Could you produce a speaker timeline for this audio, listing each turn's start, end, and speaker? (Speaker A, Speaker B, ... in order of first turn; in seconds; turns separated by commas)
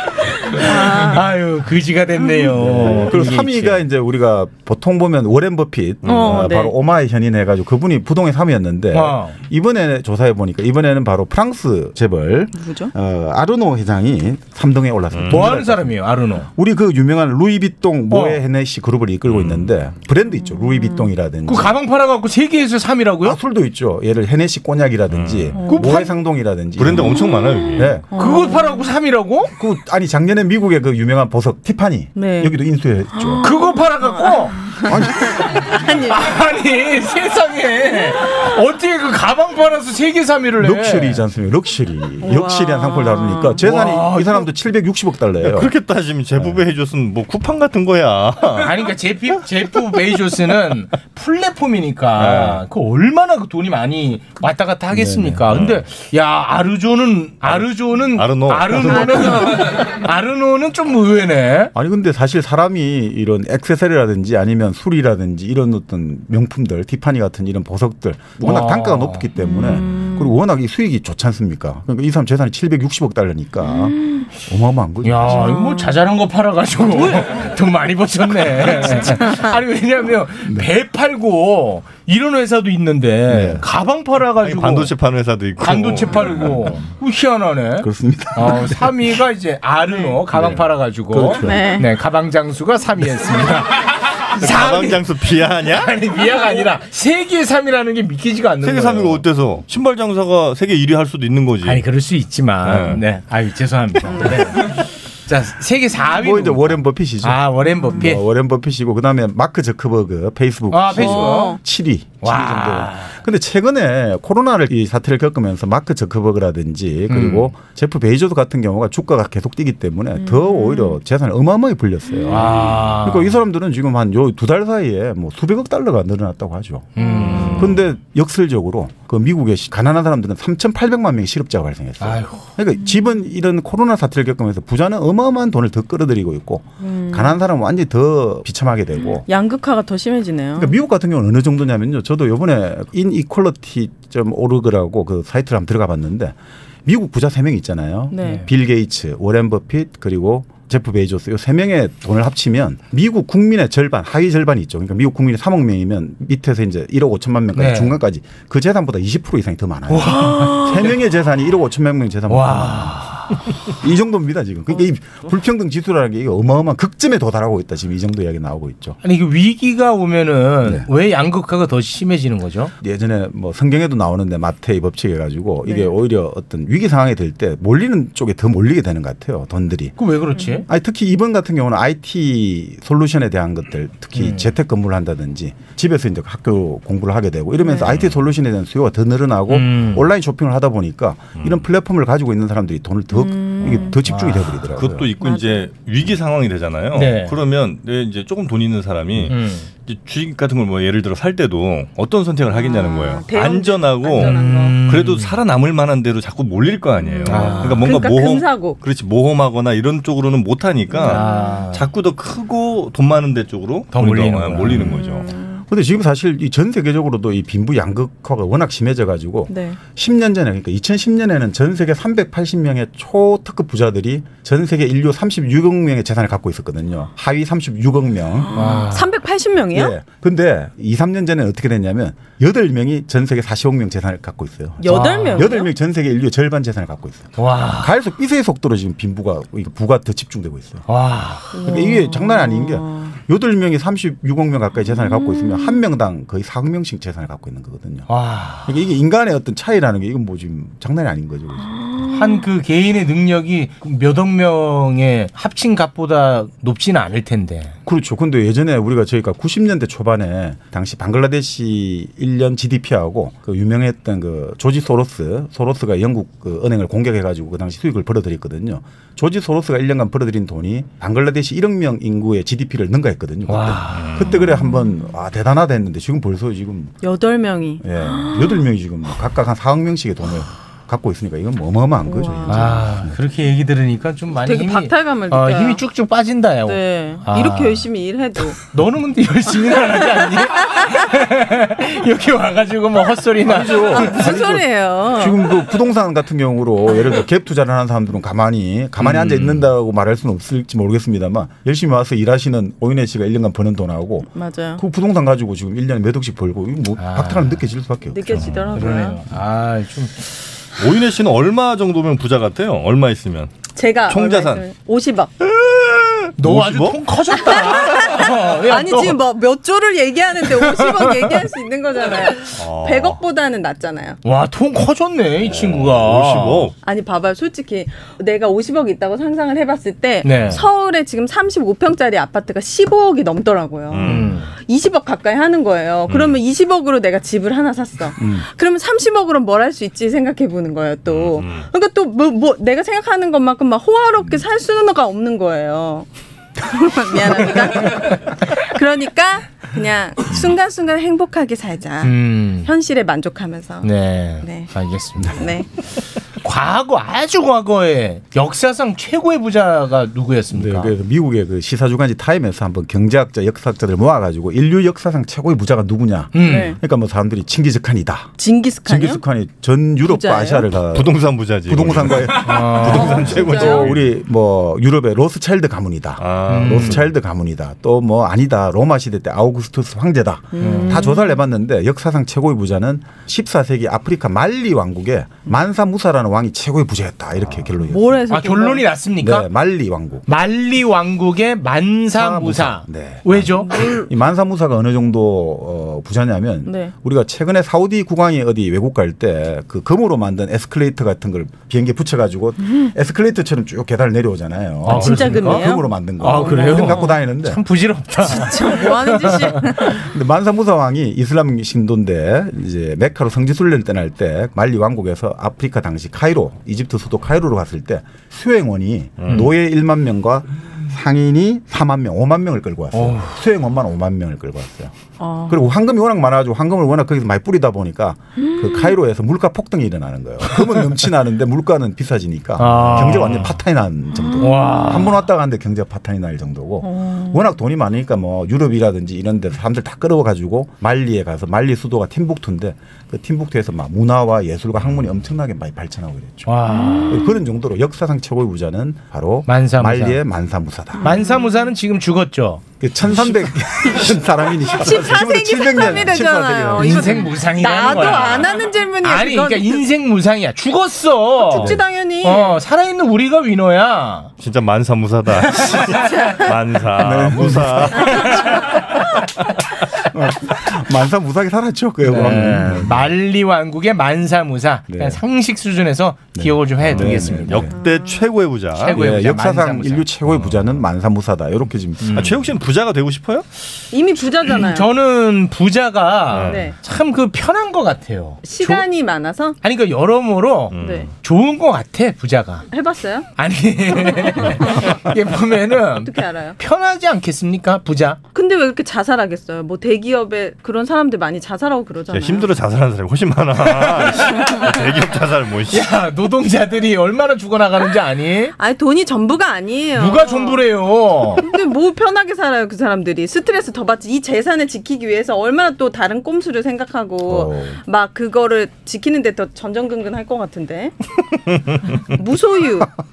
Speaker A: 0.5-3.8, Speaker B: 0.6-1.2, Speaker C: 2.5-21.8, Speaker D: 6.0-6.5, Speaker B: 6.0-6.7, Speaker A: 8.9-9.4, Speaker B: 12.5-12.9, Speaker D: 15.1-15.4, Speaker A: 15.3-16.5, Speaker A: 18.1-18.4, Speaker D: 19.2-19.7, Speaker A: 21.4-23.4, Speaker C: 23.2-27.1, Speaker D: 25.1-25.6, Speaker B: 25.6-26.1, Speaker A: 25.6-26.1, Speaker D: 26.8-28.0, Speaker C: 27.8-28.1, Speaker A: 28.1-29.5, Speaker B: 28.1-28.9, Speaker C: 29.6-33.4, Speaker B: 32.1-32.5, Speaker A: 33.4-41.2, Speaker B: 34.0-36.3, Speaker C: 34.8-35.6, Speaker C: 40.6-45.7, Speaker B: 42.2-43.6, Speaker A: 43.6-44.5, Speaker D: 45.4-48.8, Speaker A: 48.6-61.7, Speaker D: 52.2-52.6, Speaker C: 54.9-55.5, Speaker D: 55.5-55.8, Speaker D: 57.5-59.3, Speaker B: 58.9-59.7, Speaker C: 61.7-75.7, Speaker A: 68.4-69.4, Speaker B: 69.4-70.3, Speaker A: 75.0-84.9, Speaker B: 75.4-75.9, Speaker C: 83.3-83.6, Speaker D: 84.4-86.5, Speaker A: 85.6-99.2, Speaker C: 87.8-89.1, Speaker C: 90.2-91.8, Speaker B: 91.4-91.9, Speaker D: 94.4-95.9, Speaker D: 98.6-101.8, Speaker A: 101.6-108.2, Speaker D: 102.6-103.0, Speaker B: 104.1-104.5, Speaker C: 106.1-139.2, Speaker A: 110.7-111.6, Speaker B: 111.0-111.6, Speaker A: 112.2-113.2, Speaker A: 117.1-117.5, Speaker B: 120.2-120.9, Speaker A: 122.3-123.4, Speaker A: 127.0-127.9, Speaker A: 132.0-132.5, Speaker B: 136.8-137.4, Speaker B: 139.3-140.8, Speaker C: 140.6-169.0, Speaker B: 148.1-148.4, Speaker A: 148.2-148.5, Speaker A: 157.5-158.0, Speaker A: 159.9-161.0, Speaker A: 162.3-163.4, Speaker A: 169.0-172.7, Speaker C: 170.6-170.9, Speaker C: 172.8-179.9, Speaker B: 175.6-175.9, Speaker A: 180.0-180.7, Speaker C: 180.7-195.1, Speaker A: 184.2-184.5, Speaker B: 187.6-187.9, Speaker D: 187.8-188.2, Speaker A: 189.5-190.1, Speaker B: 193.2-194.0, Speaker A: 193.7-194.6, Speaker D: 194.7-215.3, Speaker B: 195.2-195.6, Speaker A: 196.9-197.4, Speaker A: 199.3-199.7, Speaker B: 202.5-204.8, Speaker A: 204.1-205.4, Speaker B: 207.0-208.8, Speaker A: 207.3-208.0, Speaker B: 210.9-211.5, Speaker A: 211.0-211.8, Speaker A: 213.9-214.9, Speaker B: 214.9-215.6, Speaker C: 215.7-228.7, Speaker B: 219.5-219.8, Speaker A: 228.5-229.2, Speaker B: 228.6-229.9, Speaker C: 229.7-240.8, Speaker B: 234.8-235.7, Speaker A: 234.8-235.6, Speaker A: 237.4-237.9, Speaker A: 240.9-241.6, Speaker B: 241.5-243.1, Speaker C: 241.6-248.1, Speaker B: 245.2-245.7, Speaker A: 248.1-248.7, Speaker C: 248.7-251.7, Speaker B: 251.8-252.4, Speaker A: 252.1-257.7, Speaker C: 257.9-276.9, Speaker A: 273.5-274.2, Speaker D: 273.9-274.3, Speaker B: 274.4-275.0, Speaker B: 277.0-278.6, Speaker C: 277.8-283.2, Speaker B: 282.1-282.6, Speaker A: 282.4-287.9, Speaker B: 284.4-285.8, Speaker B: 286.6-288.6, Speaker A: 288.7-294.4, Speaker C: 293.4-308.6, Speaker B: 293.9-295.5, Speaker A: 299.0-299.7, Speaker B: 304.3-304.8, Speaker A: 307.0-307.6, Speaker B: 308.1-309.2, Speaker D: 308.3-308.7, Speaker A: 308.4-310.3, Speaker D: 310.8-314.6, Speaker B: 313.8-315.3, Speaker D: 315.4-317.0, Speaker A: 316.4-319.2, Speaker B: 317.4-324.2, Speaker A: 320.5-321.4, Speaker D: 322.5-323.2, Speaker A: 324.2-326.7, Speaker D: 325.5-326.7, Speaker B: 326.8-346.1, Speaker A: 330.2-330.6, Speaker D: 333.9-334.3, Speaker A: 334.0-334.5, Speaker D: 336.1-336.4, Speaker C: 338.2-338.4, Speaker D: 341.1-341.7, Speaker B: 346.6-353.9, Speaker A: 352.0-352.7, Speaker A: 353.8-355.4, Speaker B: 354.4-354.7, Speaker B: 355.4-355.6, Speaker A: 356.4-360.9, Speaker C: 360.5-371.1, Speaker A: 366.3-366.8, Speaker B: 366.4-366.8, Speaker B: 368.4-369.2, Speaker B: 370.1-370.7, Speaker D: 370.9-374.2, Speaker C: 371.6-388.2, Speaker A: 372.4-373.5, Speaker B: 372.9-373.9, Speaker D: 376.2-377.1, Speaker A: 376.5-377.1, Speaker B: 380.5-381.4, Speaker A: 380.6-381.2, Speaker B: 387.8-388.9, Speaker A: 388.3-389.5, Speaker C: 389.2-390.2, Speaker A: 390.3-394.0, Speaker C: 392.1-407.6, Speaker B: 393.7-394.0, Speaker B: 396.6-396.9, Speaker A: 404.8-410.0, Speaker B: 404.9-407.2, Speaker B: 408.3-410.0, Speaker C: 410.0-424.9, Speaker D: 419.2-419.5, Speaker A: 422.9-423.4, Speaker B: 425.2-425.7, Speaker C: 425.5-446.5, Speaker B: 428.6-428.9, Speaker A: 432.6-433.6, Speaker A: 434.4-435.3, Speaker B: 436.8-437.5, Speaker A: 446.4-447.4, Speaker B: 446.8-447.3, Speaker C: 447.1-451.1, Speaker A: 449.4-450.2, Speaker A: 451.0-454.2, Speaker B: 451.0-451.6, Speaker C: 452.8-457.2, Speaker B: 454.8-459.8, Speaker A: 454.8-455.1, Speaker A: 455.7-464.3, Speaker B: 461.5-462.6, Speaker C: 461.5-461.8, Speaker D: 464.4-468.9, Speaker A: 465.6-466.1, Speaker C: 467.0-468.1, Speaker A: 467.1-468.7, Speaker C: 470.0-473.1, Speaker A: 472.0-477.7, Speaker C: 474.9-475.2, Speaker C: 476.3-477.8, Speaker D: 476.9-478.9, Speaker A: 478.8-480.1, Speaker C: 478.9-482.2, Speaker A: 482.0-482.4, Speaker D: 482.1-483.5, Speaker B: 483.9-484.9, Speaker A: 484.5-488.9, Speaker D: 486.3-486.6, Speaker B: 486.5-486.8, Speaker B: 488.4-489.6, Speaker A: 489.6-492.7, Speaker D: 490.7-491.1, Speaker B: 490.8-491.1, Speaker B: 492.7-493.3, Speaker A: 493.4-498.2, Speaker B: 493.9-494.7, Speaker B: 496.0-496.6, Speaker B: 498.3-502.5, Speaker D: 502.1-505.9, Speaker A: 503.6-504.4, Speaker A: 505.7-508.5, Speaker B: 508.6-510.7, Speaker A: 509.9-511.5, Speaker B: 511.4-520.9, Speaker C: 517.2-517.8, Speaker B: 522.1-522.9